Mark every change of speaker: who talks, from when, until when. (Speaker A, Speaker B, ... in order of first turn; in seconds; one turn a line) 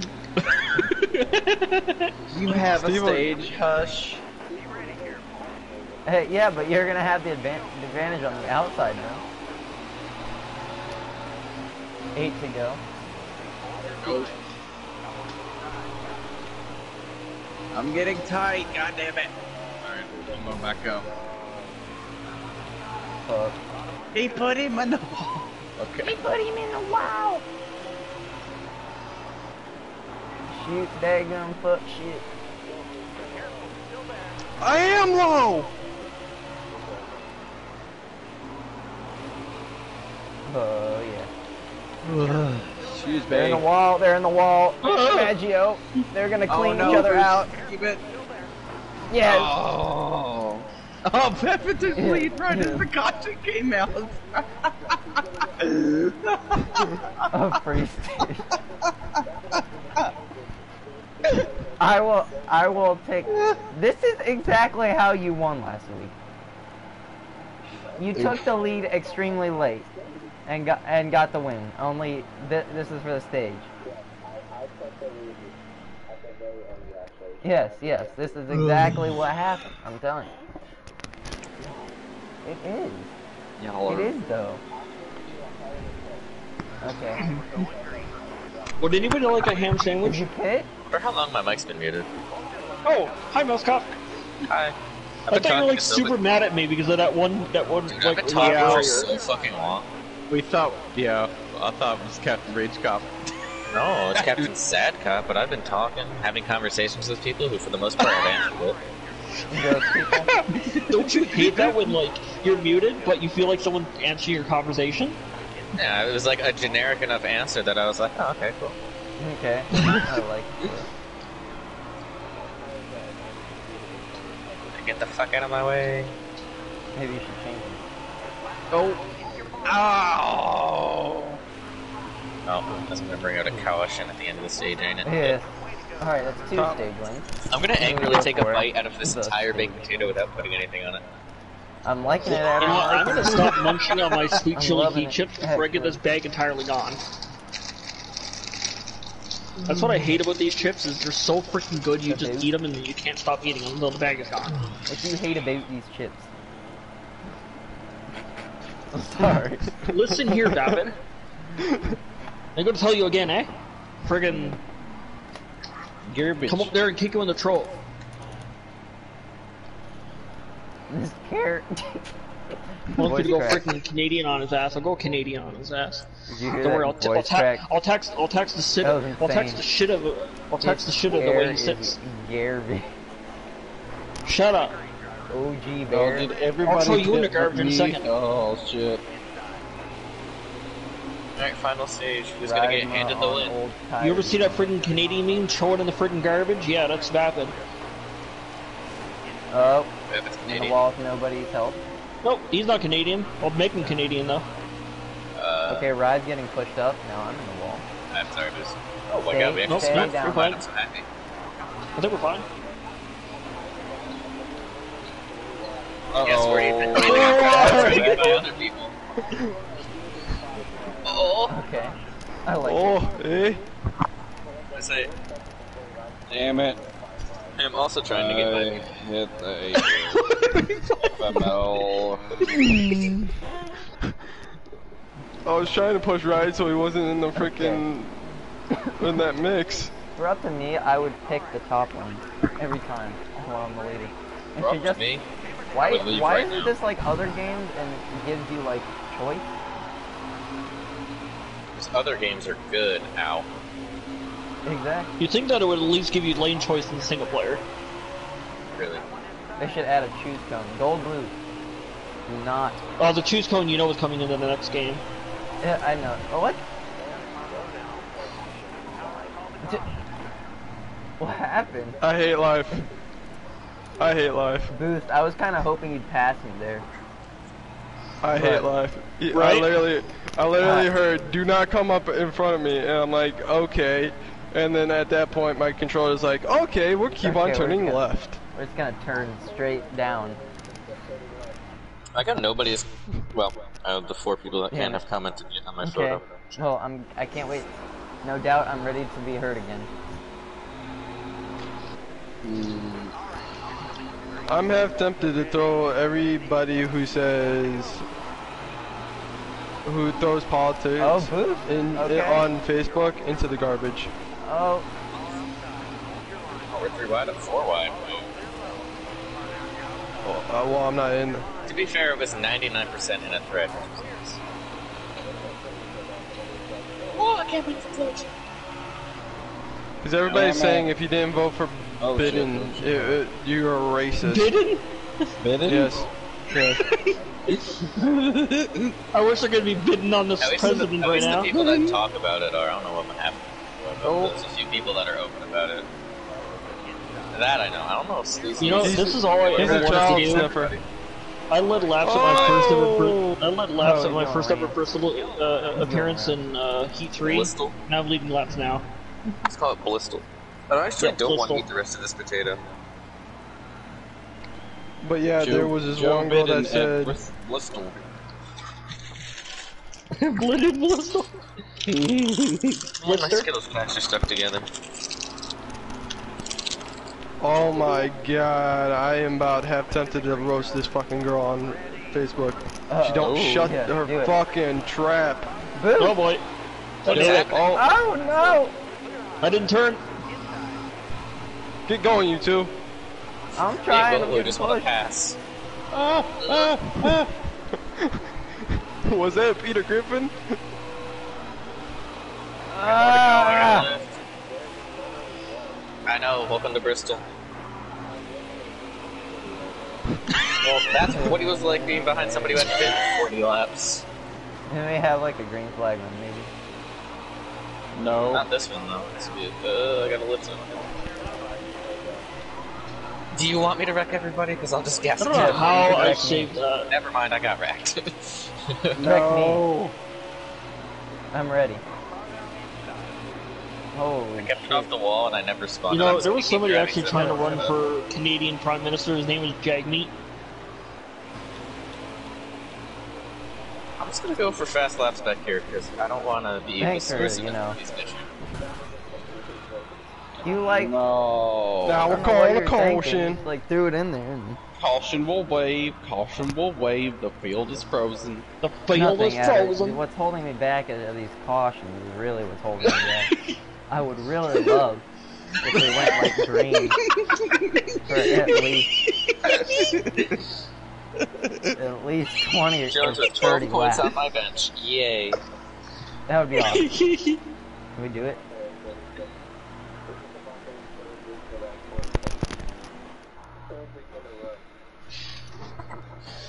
Speaker A: 1.1-2.1
Speaker B: 2.3-4.2
Speaker C: 2.7-3.5
Speaker D: 4.5-6.5
Speaker E: 6.1-9.2
Speaker E: 12.1-12.8
Speaker D: 13.7-14.4
Speaker B: 14.0-14.3
Speaker B: 17.7-19.3
Speaker D: 19.4-21.8
Speaker B: 19.8-21.1
Speaker E: 23.3-23.6
Speaker B: 24.1-26.2
Speaker E: 26.0-27.4
Speaker E: 30.5-32.2
Speaker D: 32.6-33.9
Speaker C: 34.6-35.7
Speaker D: 36.6-37.4
Speaker E: 40.5-41.3
Speaker B: 42.0-43.7
Speaker E: 43.3-47.5
Speaker B: 44.8-45.4
Speaker B: 46.5-48.0
Speaker E: 49.1-49.6
Speaker B: 49.2-54.7
Speaker E: 52.0-52.9
Speaker D: 54.6-57.0
Speaker B: 55.6-57.6
Speaker E: 57.3-58.5
Speaker D: 59.1-63.8
Speaker E: 61.8-66.1
Speaker B: 63.3-63.6
Speaker D: 67.7-70.4
Speaker E: 68.0-69.9
Speaker B: 68.1-68.5
Speaker E: 70.5-73.7
Speaker D: 73.8-78.5
Speaker E: 77.4-80.3
Speaker B: 78.5-79.2
Speaker E: 82.4-83.1
Speaker B: 83.6-84.2
Speaker E: 83.9-84.6
Speaker D: 84.7-89.8
Speaker E: 86.8-87.2
Speaker A: 88.8-90.2
Speaker E: 90.0-90.7
Speaker F: 90.9-92.1
Speaker A: 92.8-94.0
Speaker D: 92.9-93.1
Speaker F: 94.5-94.8
Speaker F: 95.3-96.1
Speaker A: 95.3-99.2
Speaker F: 97.9-99.9
Speaker B: 98.3-99.1
Speaker B: 100.3-103.1
Speaker F: 103.7-108.8
Speaker B: 104.1-104.5
Speaker E: 109.5-110.3
Speaker A: 110.1-115.2
Speaker B: 110.6-111.9
Speaker F: 115.8-118.8
Speaker E: 119.2-120.9
Speaker A: 119.8-120.0
Speaker D: 122.3-124.8
Speaker F: 124.7-126.1
Speaker E: 126.9-127.8
Speaker B: 128.7-129.0
Speaker D: 128.7-129.9
Speaker B: 129.7-131.4
Speaker F: 132.4-135.4
Speaker E: 135.1-135.5
Speaker E: 136.0-140.1
Speaker C: 136.5-136.8
Speaker F: 137.5-141.0
Speaker E: 141.8-143.6
Speaker A: 142.4-147.0
Speaker B: 143.1-144.3
Speaker E: 144.6-146.0
Speaker A: 149.6-154.7
Speaker E: 152.1-152.5
Speaker E: 154.9-156.3
Speaker E: 158.9-159.8
Speaker A: 159.9-161.0
Speaker A: 162.6-163.5
Speaker A: 164.0-164.6
Speaker B: 166.1-166.7
Speaker A: 166.5-167.8
Speaker E: 170.9-172.1
Speaker E: 172.9-173.7
Speaker A: 172.9-182.0
Speaker E: 176.3-177.6
Speaker E: 178.8-179.6
Speaker E: 180.6-182.9
Speaker A: 184.2-184.7
Speaker E: 185.3-186.4
Speaker B: 185.9-189.0
Speaker A: 186.6-188.0
Speaker F: 191.4-193.6
Speaker E: 192.4-194.5
Speaker A: 194.0-197.6
Speaker E: 199.5-199.9
Speaker F: 200.1-200.8
Speaker E: 200.5-201.8
Speaker A: 202.2-204.4
Speaker F: 205.4-205.9
Speaker E: 205.7-207.8
Speaker F: 208.1-211.1
Speaker E: 209.3-210.4
Speaker A: 209.7-210.6
Speaker A: 212.0-212.4
Speaker D: 213.3-216.5
Speaker B: 216.1-218.4
Speaker F: 216.2-218.9
Speaker C: 217.0-218.4
Speaker E: 217.2-218.4
Speaker D: 219.3-221.6
Speaker F: 221.1-221.6
Speaker E: 221.5-223.1
Speaker C: 222.6-223.7
Speaker D: 224.4-227.7
Speaker F: 224.8-225.1
Speaker B: 226.3-226.8
Speaker F: 227.6-228.9
Speaker B: 228.1-230.4
Speaker A: 230.1-231.1
Speaker B: 231.1-232.8
Speaker C: 235.4-238.2
Speaker E: 237.4-237.8
Speaker C: 238.9-239.9
Speaker E: 240.2-245.0
Speaker F: 244.6-245.2
Speaker E: 245.7-249.5
Speaker F: 245.8-246.7
Speaker F: 251.8-253.4
Speaker E: 254.7-255.1
Speaker A: 255.2-257.6
Speaker F: 258.7-259.0
Speaker E: 259.6-261.4
Speaker E: 262.3-262.8
Speaker A: 263.0-265.0
Speaker E: 265.6-266.6
Speaker D: 266.9-269.9
Speaker E: 271.2-272.0
Speaker C: 272.0-272.8
Speaker C: 274.0-274.7
Speaker E: 274.7-276.9
Speaker C: 278.2-288.4
Speaker E: 278.3-278.7
Speaker A: 279.3-279.8
Speaker E: 280.6-280.9
Speaker E: 287.2-288.0
Speaker E: 288.5-290.4
Speaker D: 289.4-291.6
Speaker F: 292.1-296.3
Speaker E: 294.7-295.0
Speaker E: 295.8-297.7
Speaker E: 298.2-299.9
Speaker B: 302.4-303.1
Speaker C: 304.5-308.1
Speaker C: 309.9-314.1
Speaker E: 311.0-312.5
Speaker E: 314.4-314.9
Speaker F: 316.7-318.3
Speaker C: 320.2-321.4
Speaker F: 321.7-324.4
Speaker D: 325.2-327.4
Speaker F: 327.1-328.3
Speaker C: 330.0-334.5
Speaker B: 330.3-330.9
Speaker B: 332.0-333.2
Speaker A: 334.2-334.9
Speaker B: 335.4-336.1
Speaker C: 335.6-336.9
Speaker A: 336.8-337.1
Speaker D: 337.0-338.2
Speaker B: 337.9-338.9
Speaker A: 339.1-341.5
Speaker F: 340.4-345.9
Speaker B: 340.6-342.0
Speaker B: 344.0-344.4
Speaker D: 346.4-346.9
Speaker F: 347.3-350.8
Speaker A: 348.6-350.5
Speaker C: 348.8-350.8
Speaker B: 349.6-350.4
Speaker A: 351.5-358.9
Speaker C: 352.0-352.9
Speaker B: 352.4-353.1
Speaker E: 353.8-354.8
Speaker E: 355.7-356.4
Speaker F: 357.2-357.7
Speaker F: 359.4-362.6
Speaker A: 361.1-361.6
Speaker C: 365.0-367.2
Speaker B: 365.4-368.0
Speaker A: 370.2-371.3
Speaker B: 371.9-372.9
Speaker F: 373.0-374.7
Speaker A: 373.0-373.5
Speaker C: 377.4-385.6
Speaker E: 382.9-384.4
Speaker E: 385.7-386.2
Speaker A: 385.9-386.4
Speaker A: 387.0-387.7
Speaker B: 387.1-387.8
Speaker C: 387.1-387.9
Speaker E: 387.7-388.7
Speaker A: 389.4-390.0
Speaker C: 391.9-392.7
Speaker E: 393.6-394.9
Speaker F: 393.8-395.4
Speaker C: 395.9-397.2
Speaker F: 396.4-396.8
Speaker B: 397.0-397.3
Speaker C: 399.1-400.6
Speaker E: 402.7-403.9
Speaker F: 402.8-404.1
Speaker D: 404.4-406.1
Speaker F: 406.1-407.2
Speaker D: 407.9-410.2
Speaker F: 410.6-414.0
Speaker E: 411.1-411.4
Speaker B: 412.2-412.7
Speaker E: 414.7-416.5
Speaker B: 417.9-418.4
Speaker F: 418.3-420.9
Speaker D: 421.2-422.3
Speaker F: 423.3-426.4
Speaker A: 425.2-426.9
Speaker E: 425.3-426.5
Speaker F: 426.9-428.9
Speaker B: 428.9-429.9
Speaker E: 429.0-429.6
Speaker E: 431.3-431.8
Speaker E: 433.9-434.9
Speaker F: 434.4-437.8
Speaker A: 435.9-440.1
Speaker F: 444.0-448.3
Speaker E: 446.8-447.8
Speaker D: 447.7-450.6
Speaker E: 450.4-450.9
Speaker B: 450.7-452.2
Speaker C: 451.8-453.4
Speaker E: 452.1-454.6
Speaker B: 454.8-458.4
Speaker A: 458.6-460.0
Speaker E: 458.9-463.3
Speaker E: 463.9-465.1
Speaker E: 465.6-467.0
Speaker B: 465.7-466.4
Speaker E: 468.1-468.9
Speaker B: 469.4-470.4
Speaker B: 471.4-471.8
Speaker E: 471.7-474.1
Speaker F: 472.9-475.4
Speaker E: 476.3-476.9
Speaker A: 476.6-477.4
Speaker E: 478.0-478.4
Speaker D: 478.3-479.4
Speaker D: 480.0-482.6
Speaker D: 483.7-484.7